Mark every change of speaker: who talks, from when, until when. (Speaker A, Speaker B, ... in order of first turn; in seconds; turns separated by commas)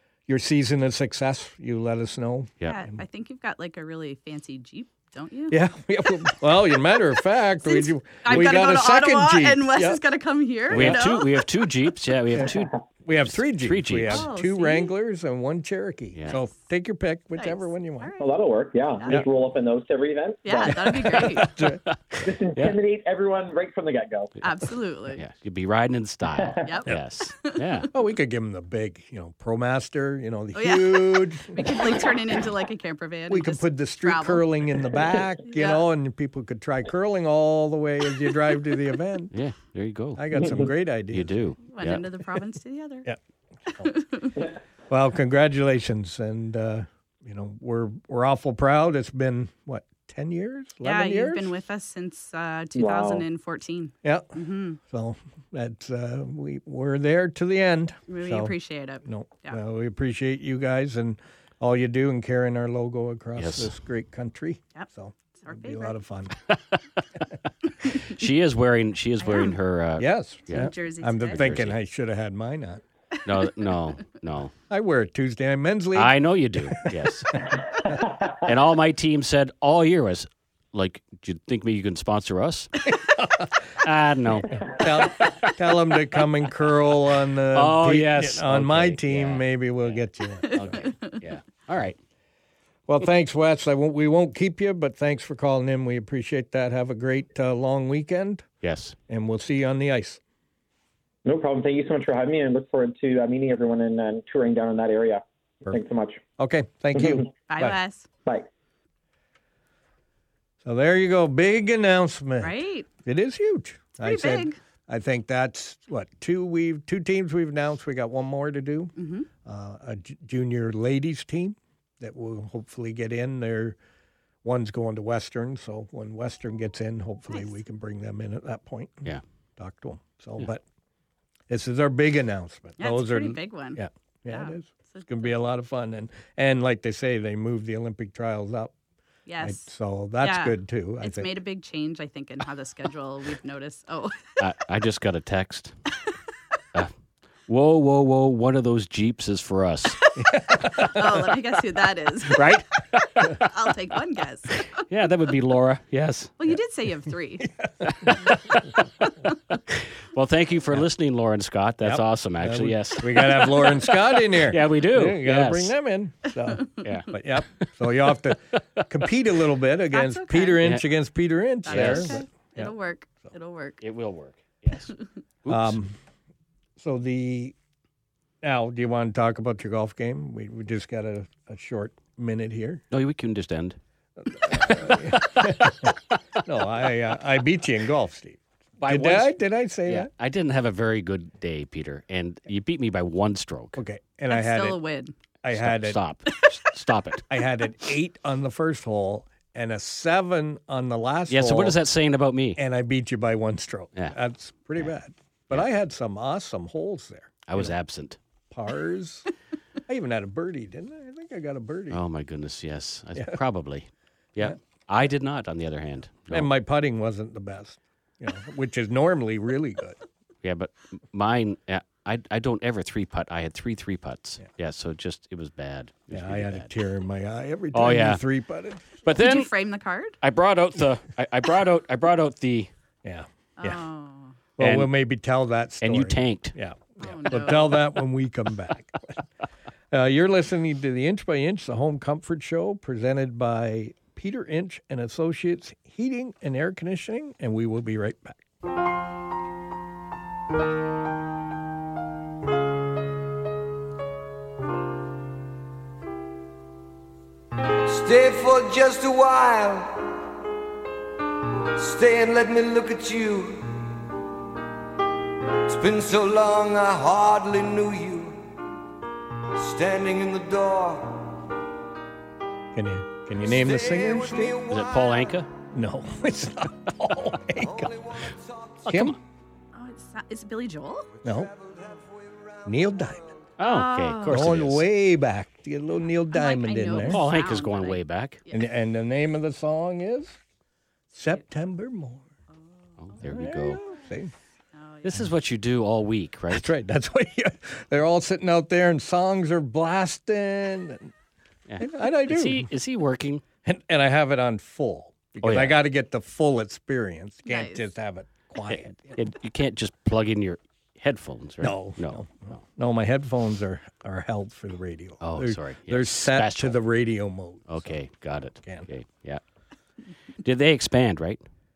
Speaker A: 0.3-3.0, Speaker B: 2.6-5.6, Speaker A: 5.5-10.0, Speaker B: 6.9-11.5, Speaker C: 8.3-8.6, Speaker A: 10.7-11.0, Speaker C: 10.7-12.7, Speaker A: 13.0-18.1, Speaker C: 13.2-14.3, Speaker B: 14.1-14.9, Speaker C: 16.1-16.4, Speaker B: 17.4-19.2, Speaker D: 18.2-20.8, Speaker B: 20.4-21.6, Speaker A: 20.7-21.8, Speaker C: 21.6-22.8, Speaker D: 22.2-24.3, Speaker B: 24.4-25.2, Speaker C: 25.1-27.9, Speaker B: 26.6-27.6, Speaker A: 27.9-31.9, Speaker B: 30.5-34.5, Speaker A: 33.3-39.3, Speaker B: 35.5-35.9, Speaker C: 39.3-40.2, Speaker A: 40.1-41.3, Speaker C: 41.1-42.0, Speaker B: 41.7-43.1, Speaker B: 43.7-44.4, Speaker A: 44.9-51.5, Speaker B: 50.8-54.8, Speaker D: 52.8-53.2, Speaker A: 54.0-54.3, Speaker A: 54.9-66.3, Speaker B: 58.1-59.6, Speaker C: 63.4-63.7, Speaker B: 64.7-66.0, Speaker C: 66.5-66.8, Speaker C: 68.0-70.7, Speaker B: 69.2-69.6, Speaker A: 70.0-72.8, Speaker B: 70.5-71.5, Speaker C: 71.3-71.8, Speaker C: 73.2-74.5, Speaker A: 74.7-76.9, Speaker C: 75.9-77.4, Speaker D: 77.9-78.3, Speaker C: 78.4-82.9, Speaker A: 82.9-83.5, Speaker C: 83.8-85.5, Speaker A: 84.5-90.8, Speaker C: 87.5-92.0, Speaker B: 90.5-91.2, Speaker A: 92.9-98.4, Speaker C: 98.6-99.0, Speaker A: 99.1-100.2, Speaker D: 101.2-106.2, Speaker A: 106.4-107.8, Speaker D: 107.0-107.2, Speaker B: 107.5-108.1, Speaker A: 110.6-112.5, Speaker B: 112.4-112.9, Speaker A: 113.0-118.9, Speaker B: 114.0-114.6, Speaker B: 119.0-119.3, Speaker A: 119.4-123.8, Speaker A: 124.4-130.6, Speaker A: 131.5-138.7, Speaker B: 132.8-135.3, Speaker B: 139.3-139.7, Speaker A: 139.4-141.3, Speaker B: 140.2-144.4, Speaker C: 144.4-145.8, Speaker C: 147.5-150.0, Speaker B: 150.0-154.8, Speaker A: 150.2-151.0, Speaker C: 152.3-153.4, Speaker C: 154.7-156.3, Speaker B: 156.4-157.5, Speaker A: 157.6-158.1, Speaker C: 159.7-165.7, Speaker A: 161.8-172.7, Speaker C: 166.8-168.1, Speaker B: 169.9-170.6, Speaker C: 171.7-172.2, Speaker B: 171.7-173.8, Speaker C: 173.8-174.9, Speaker C: 175.4-175.8, Speaker A: 175.5-175.9, Speaker A: 176.8-177.5, Speaker A: 178.4-182.8, Speaker C: 182.9-183.8, Speaker A: 184.2-190.1, Speaker C: 184.5-185.9, Speaker C: 188.8-193.8, Speaker A: 193.8-194.8, Speaker B: 194.3-195.1, Speaker A: 195.4-196.0, Speaker C: 195.5-197.2, Speaker A: 197.3-201.8, Speaker C: 201.3-202.6, Speaker A: 202.6-207.7, Speaker C: 207.5-208.2, Speaker A: 208.5-209.3, Speaker A: 209.9-212.0, Speaker C: 211.9-216.5, Speaker A: 216.3-220.0, Speaker C: 220.4-226.7, Speaker A: 226.1-229.0, Speaker C: 227.7-228.2, Speaker C: 229.0-229.5, Speaker B: 229.1-230.2, Speaker C: 230.2-232.7, Speaker A: 233.0-233.8, Speaker B: 233.6-234.3, Speaker A: 234.6-239.2, Speaker C: 234.6-234.9, Speaker C: 235.8-237.7, Speaker B: 237.0-237.8, Speaker A: 239.9-248.4, Speaker E: 257.8-260.1, Speaker E: 261.7-263.9, Speaker E: 265.6-268.5, Speaker E: 269.5-271.4, Speaker A: 272.7-274.6, Speaker E: 273.4-275.4, Speaker C: 274.7-275.5, Speaker A: 275.7-277.9, Speaker E: 277.5-278.9, Speaker A: 278.9-279.2, Speaker C: 278.9-279.2, Speaker B: 279.7-281.1, Speaker A: 281.2-281.5, Speaker E: 281.2-283.4, Speaker A: 282.6-283.2, Speaker C: 283.6-284.8, Speaker B: 283.6-284.5, Speaker A: 284.2-287.2, Speaker B: 286.3-288.7, Speaker C: 286.9-288.4, Speaker A: 288.5-290.4, Speaker A: 291.1-292.2, Speaker B: 292.5-293.8, Speaker C: 293.0-293.8, Speaker A: 293.2-294.3, Speaker B: 294.7-295.3, Speaker C: 295.0-296.7, Speaker A: 296.5-301.1, Speaker C: 301.7-303.4, Speaker A: 301.8-302.7, Speaker A: 303.6-309.2, Speaker C: 305.4-305.8, Speaker B: 307.4-307.9, Speaker C: 308.7-312.6, Speaker A: 311.6-317.9, Speaker C: 315.2-316.8, Speaker C: 317.7-319.4, Speaker A: 318.6-318.9, Speaker C: 320.4-321.4